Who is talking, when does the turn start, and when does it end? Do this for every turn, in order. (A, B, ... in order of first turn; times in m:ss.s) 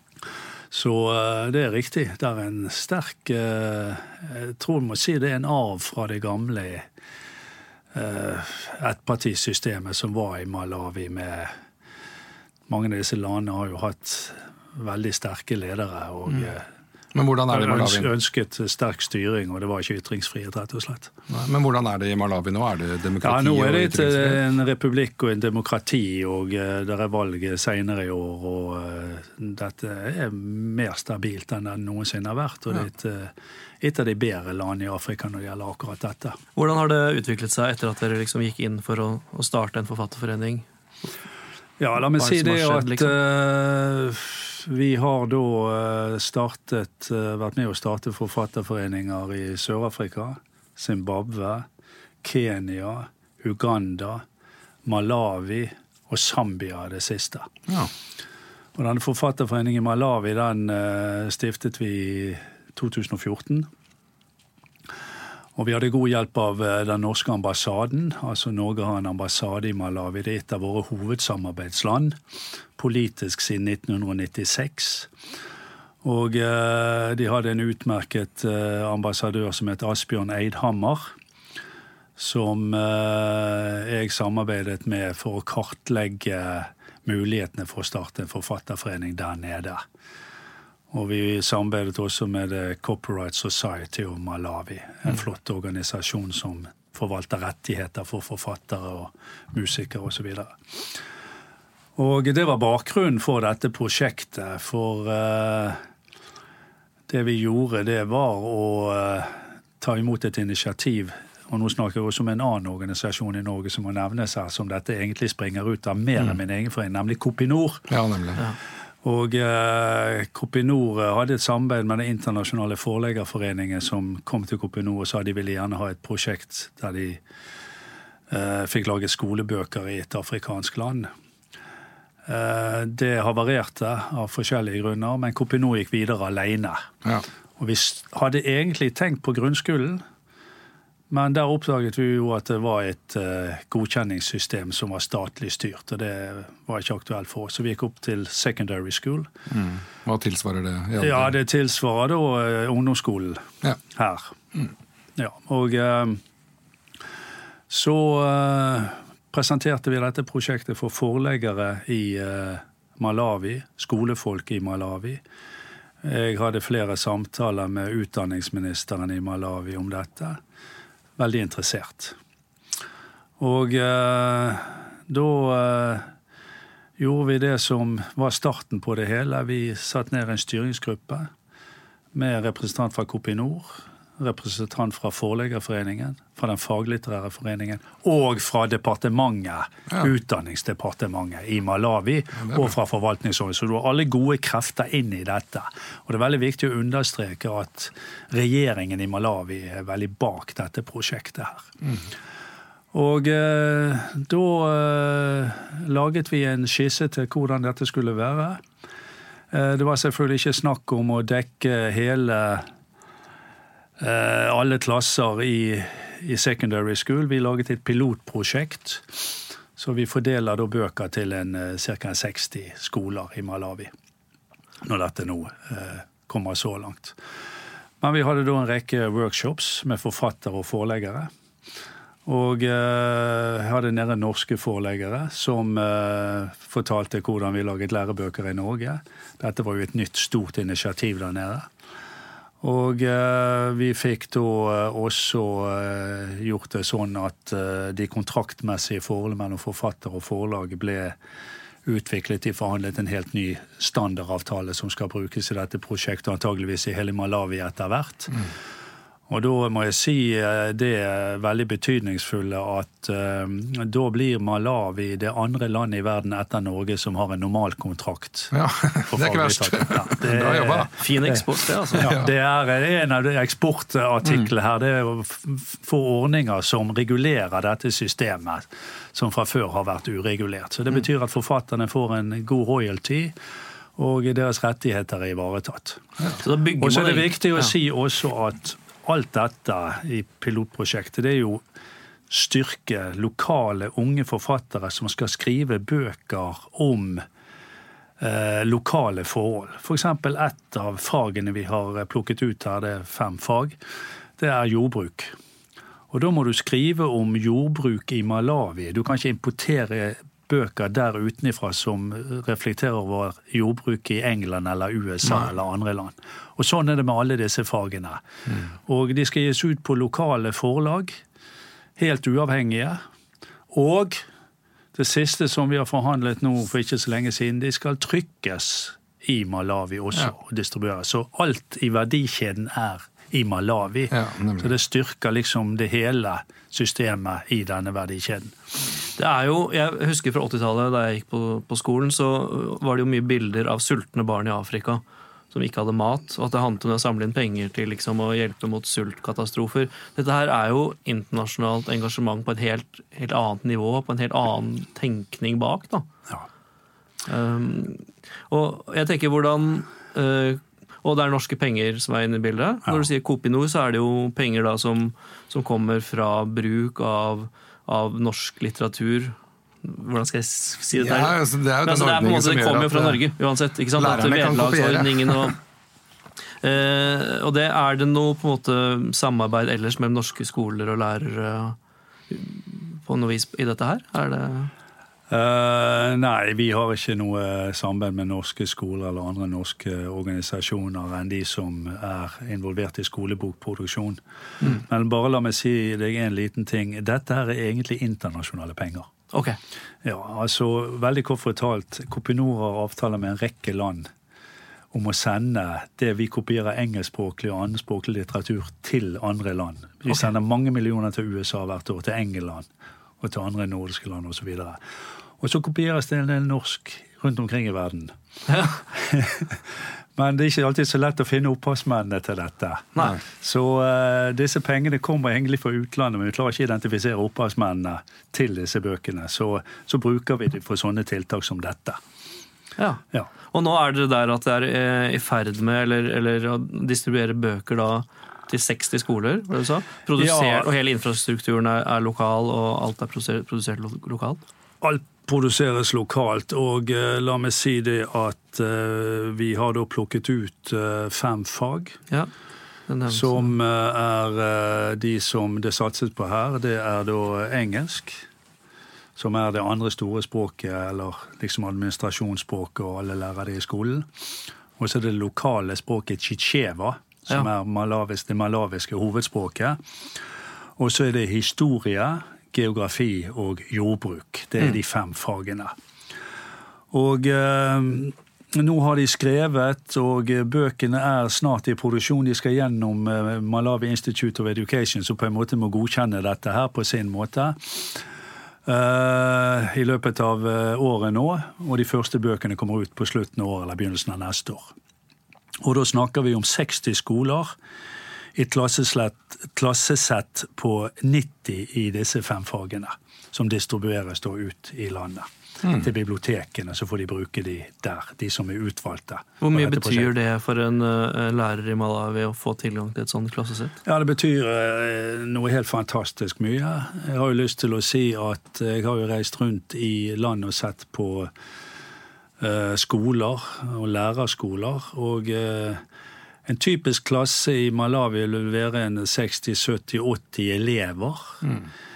0:00.7-0:06.9 A
0:07.9-0:11.5 A
0:12.7-0:16.7 A
0:17.1-0:18.1 B
0:17.5-0:21.1 A
0:21.3-0:24.4 B
0:23.2-0:36.4 A
0:36.6-0:40.6 C
0:41.8-0:51.6 A
0:42.1-0:43.2 C
0:52.2-0:54.2 A
0:54.8-0:57.5 A
0:58.8-1:03.7 A
1:05.6-1:12.2 A
1:12.8-1:15.1 A
1:16.0-1:21.1 A
1:22.2-1:29.8 A
1:30.9-1:40.6 A
1:42.0-1:45.8 A
1:47.1-1:57.9 A
1:57.9-1:58.4 B
1:59.0-2:07.2 A
2:08.3-2:11.1 A
2:12.2-2:16.9 A
2:17.6-2:20.0 A
2:21.1-2:29.3 A
2:29.5-2:31.3 B
2:31.0-2:34.3 A
2:35.2-2:36.2 A
2:37.7-2:45.2 A
2:46.0-2:50.4 A
2:51.2-2:52.2 A
2:53.4-2:56.1 A
2:57.0-3:01.3 A
3:02.1-3:21.7 A
3:12.4-3:12.7 B
3:22.9-3:28.6 A
3:29.5-3:32.7 A
3:34.0-3:43.9 A
3:44.8-3:47.2 A
3:48.0-3:51.3 A
3:52.2-4:01.7 A
4:02.6-4:11.2 A
4:11.8-4:18.4 A
4:19.3-4:28.5 A
4:28.5-4:30.9 B
4:29.1-4:31.4 A
4:30.9-4:32.1 C
4:31.9-4:32.3 B
4:32.0-4:43.3 A
4:44.0-4:46.0 A
4:46.4-4:47.7 C
4:46.8-4:51.6 A
4:52.3-4:57.2 A
4:58.2-5:03.8 A
5:04.4-5:05.3 A
5:06.1-5:18.2 A
5:18.8-5:21.2 A
5:22.0-5:23.0 A
5:23.7-5:24.2 A
5:24.9-5:38.6 A
5:34.1-5:34.7 B
5:39.2-5:56.1 C
5:57.2-6:15.6 C
6:11.0-6:13.2 B
6:14.0-6:15.5 B
6:16.6-6:21.8 C
6:22.3-6:24.7 C
6:25.3-6:39.1 A
6:39.3-6:39.6 C
6:40.0-6:44.1 A
6:44.9-6:52.7 A
6:53.2-6:54.8 A
6:55.4-6:58.1 A
6:58.8-7:12.0 A
7:12.8-7:24.4 C
7:20.1-7:20.7 A
7:24.8-7:32.0 A
7:32.9-7:33.5 C
7:33.1-7:38.2 A
7:39.2-7:44.1 A
7:44.8-7:49.8 A
7:50.8-7:55.7 A
7:56.9-8:08.0 A
8:08.6-8:14.7 A
8:15.6-8:17.5 A
8:18.4-8:30.1 A
8:29.4-8:33.8 C
8:33.8-8:41.3 A
8:42.4-8:45.8 A
8:46.4-8:51.4 A